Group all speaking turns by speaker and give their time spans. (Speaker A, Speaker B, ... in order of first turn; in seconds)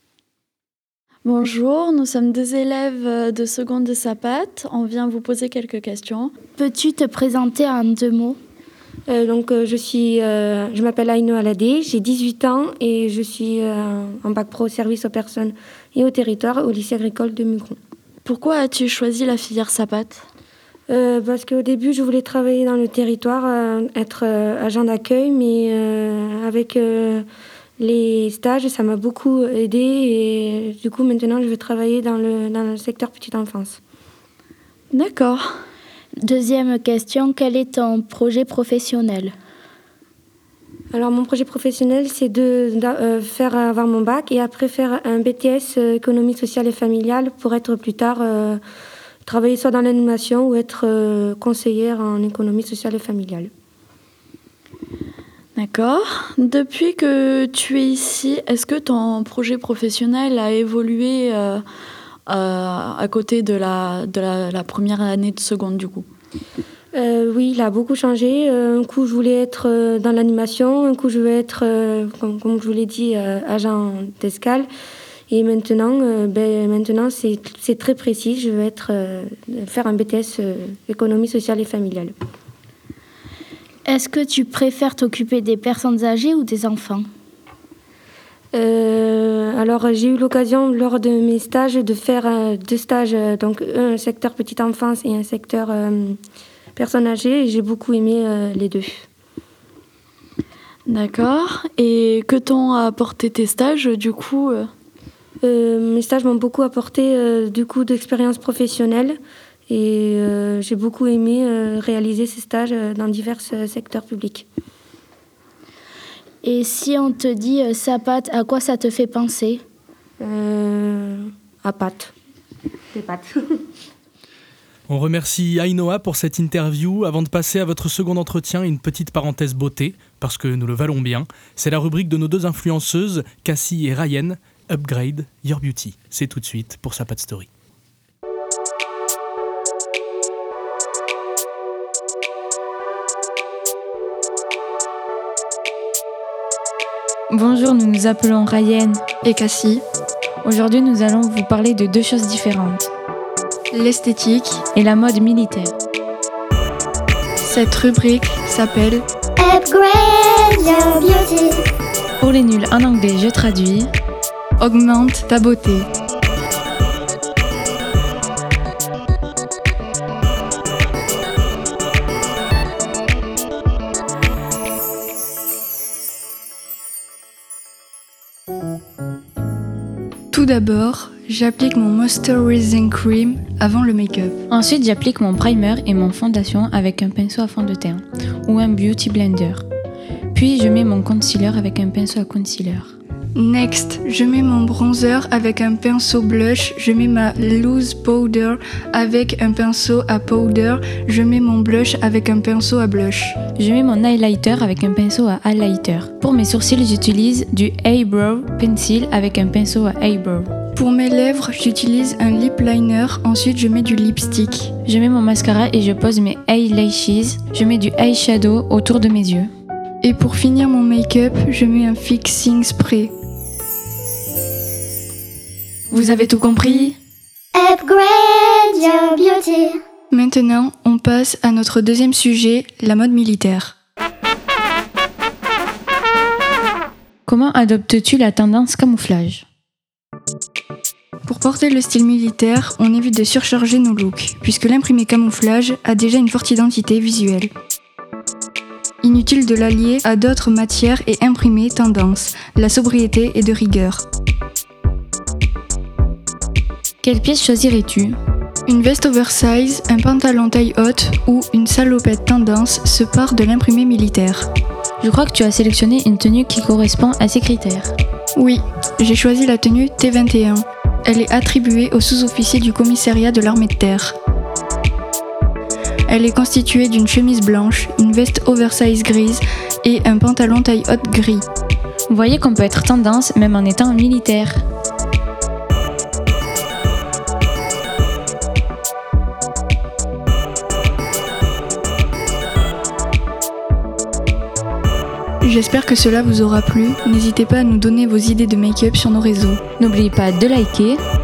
Speaker A: 1.2-6.3, 18.2-20.2, 34.9-35.6, 55.5-61.6, 62.3-66.0, 100.9-104.7
Speaker B: 6.5-8.4, 36.2-39.3, 83.9-87.1, 116.4-119.6
Speaker C: 9.1-17.8, 20.9-27.2, 27.8-33.8, 40.9-48.6, 49.2-53.5, 66.9-74.7, 75.3-82.1, 88.5-96.2, 96.8-99.0, 105.4-114.5, 120.2-122.1
Speaker D: 124.9-137.5
Speaker E: 147.3-149.0, 150.4-152.9, 154.7-155.7, 162.2-163.9, 184.5-189.6, 190.3-192.9, 203.6-210.5, 214.8-219.5, 237.2-239.4, 257.0-258.2, 265.0-267.9, 282.1-284.6, 299.8-301.0
Speaker F: 149.2-149.8, 153.7-154.6, 157.4-159.0, 164.6-165.9, 180.3-184.4, 193.3-203.4, 210.7-214.7, 220.0-223.1, 225.9-227.0, 230.1-233.7, 241.2-247.5, 249.0-254.0, 258.7-264.5, 268.3-274.1, 276.1-281.4, 295.4-299.6
Speaker G: 159.4-161.6, 227.6-229.8